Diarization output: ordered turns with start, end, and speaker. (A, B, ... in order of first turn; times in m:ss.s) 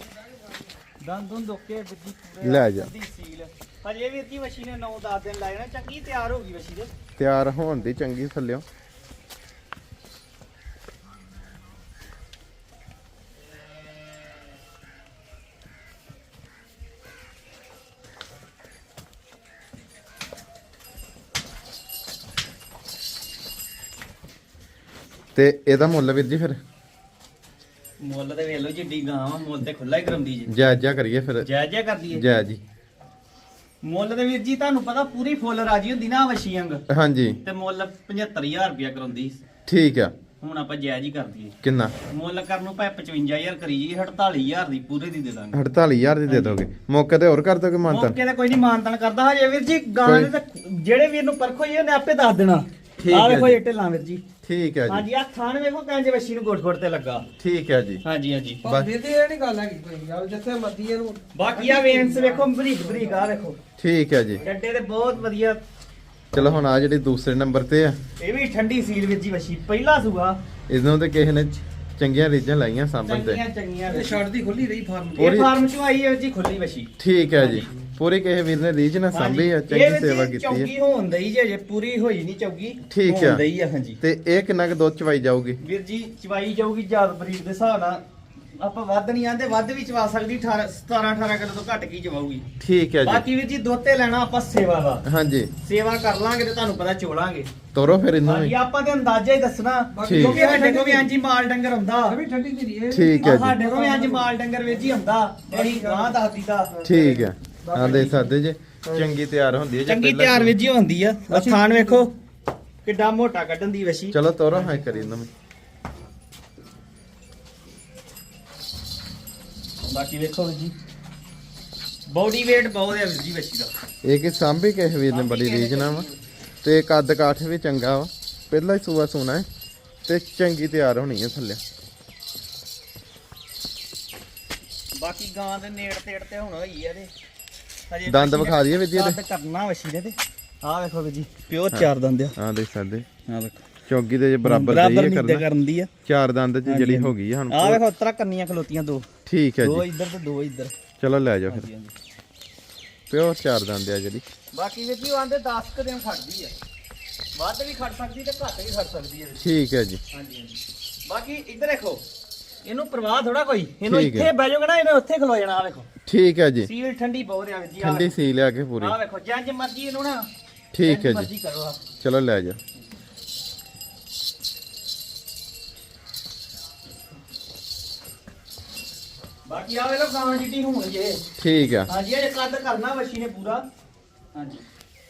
0:01.0-0:06.9 A
0:02.4-0:02.9 B
0:07.2-0:08.6 B
0:25.4-0:26.6 B
0:28.0-0:30.5 A
0:30.5-0:31.5 B
0:31.4-0:32.2 A
0:32.1-0:32.6 B
0:33.8-0:36.8 A
0:36.9-0:37.4 B
0:37.4-0:39.4 A
0:39.7-0:40.1 B
0:40.4-0:41.6 A
0:41.6-0:42.0 B
0:42.1-0:45.6 A
0:45.5-0:48.2 B
0:46.3-0:46.6 A
0:47.9-0:54.2 A
0:50.0-0:50.3 B
0:53.0-0:53.6 B
0:54.4-0:55.0 B
0:54.9-0:57.3 A
0:57.4-0:58.0 B
0:58.0-0:58.6 A
0:58.6-1:03.3 C
0:58.6-0:58.9 B
1:01.3-1:03.6 A
1:03.8-1:04.4 B
1:04.4-1:05.6 A
1:06.3-1:08.0 B
1:08.2-1:10.4 A
1:10.7-1:13.4 B
1:13.0-1:14.2 A
1:13.9-1:15.3 C
1:15.2-1:15.5 B
1:15.2-1:17.7 A
1:17.0-1:20.7 B
1:19.1-1:24.0 A
1:22.9-1:23.4 B
1:24.0-1:25.6 B
1:25.6-1:28.0 A
1:28.6-1:32.4 A
1:32.6-1:33.2 B
1:33.0-1:35.0 A
1:35.0-1:35.5 B
1:35.6-1:37.5 A
1:37.7-1:38.6 B
1:38.2-1:42.2 A
1:39.9-1:41.1 C
1:40.0-1:40.4 B
1:42.1-1:46.2 C
1:42.9-1:43.6 B
1:43.2-1:46.7 A
1:46.7-1:48.3 C
1:46.8-1:50.6 B
1:47.8-1:48.1 A
1:48.8-1:49.1 C
1:49.9-1:52.1 A
1:51.3-1:52.0 C
1:52.8-1:54.2 A
1:54.1-1:55.3 B
1:59.9-2:00.7 A
2:02.1-2:03.7 A
2:04.0-2:06.0 B
2:05.1-2:06.2 A
2:06.6-2:09.4 B
2:10.1-2:11.6 B
2:15.0-2:17.1 A
2:17.9-2:22.4 A
2:18.1-2:19.2 B
2:21.7-2:23.1 B
2:23.3-2:23.6 A
2:23.9-2:25.4 B
2:24.4-2:25.9 A
2:26.1-2:27.8 B
2:26.6-2:29.1 A
2:29.2-2:29.8 B
2:29.6-2:30.7 A
2:31.0-2:31.7 B
2:31.5-2:31.9 A
2:33.1-2:34.2 B
2:34.5-2:36.5 A
2:37.4-2:39.4 A
2:39.4-2:40.0 B
2:40.1-2:42.0 A
2:42.6-2:45.9 A
2:43.8-2:44.3 B
2:46.1-2:46.7 B
2:46.6-2:48.1 A
2:47.8-2:49.0 B
2:48.8-2:50.3 A
2:50.7-2:51.3 B
2:50.8-2:51.8 A
2:52.0-2:52.6 B
2:59.5-3:01.2 A
3:01.4-3:01.9 B
3:01.9-3:03.6 A
3:04.3-3:04.6 A